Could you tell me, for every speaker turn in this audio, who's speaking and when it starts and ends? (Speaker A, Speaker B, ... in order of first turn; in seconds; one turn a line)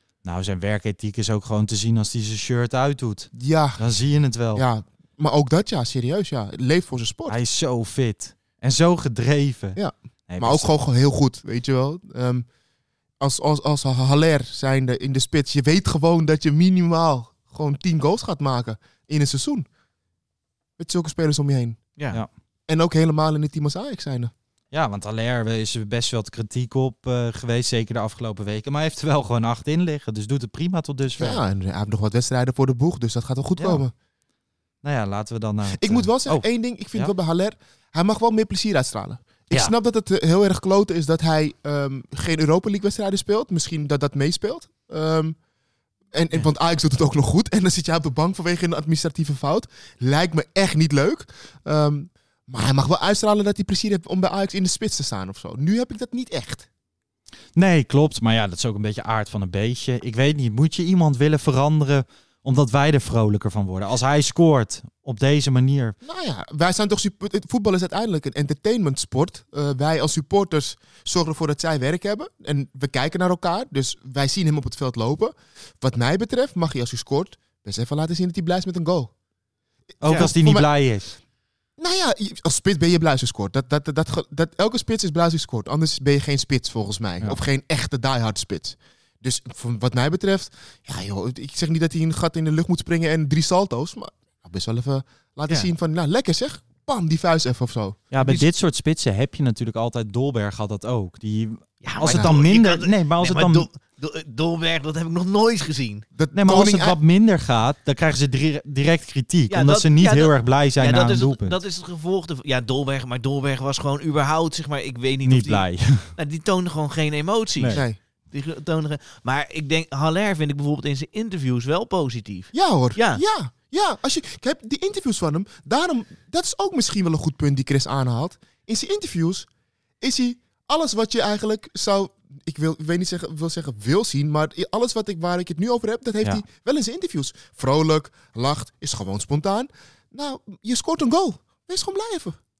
Speaker A: 0.2-4.7
Speaker B: 3.3-3.8
Speaker B: 4.5-7.4
Speaker A: 7.3-10.7
Speaker B: 9.8-12.5
Speaker B: 13.2-19.7
Speaker B: 20.8-21.8
Speaker C: 22.0-22.2
Speaker B: 22.7-24.3
Speaker A: 24.7-31.4
Speaker B: 31.2-33.9
Speaker A: 34.8-37.1
Speaker B: 35.8-45.4
Speaker B: 46.1-56.7
Speaker A: 57.6-66.0
Speaker B: 66.0-79.1
Speaker A: 80.0-81.2
Speaker C: 80.0-80.3
Speaker B: 80.1-80.7
Speaker B: 81.8-98.4
Speaker A: 98.1-103.7
Speaker C: 101.8-106.1
Speaker B: 102.0-102.3
Speaker B: 106.1-107.0
Speaker A: 106.3-111.6
Speaker C: 109.5-123.2
Speaker A: 115.3-116.1
Speaker B: 122.5-129.5
Speaker B: 130.0-142.4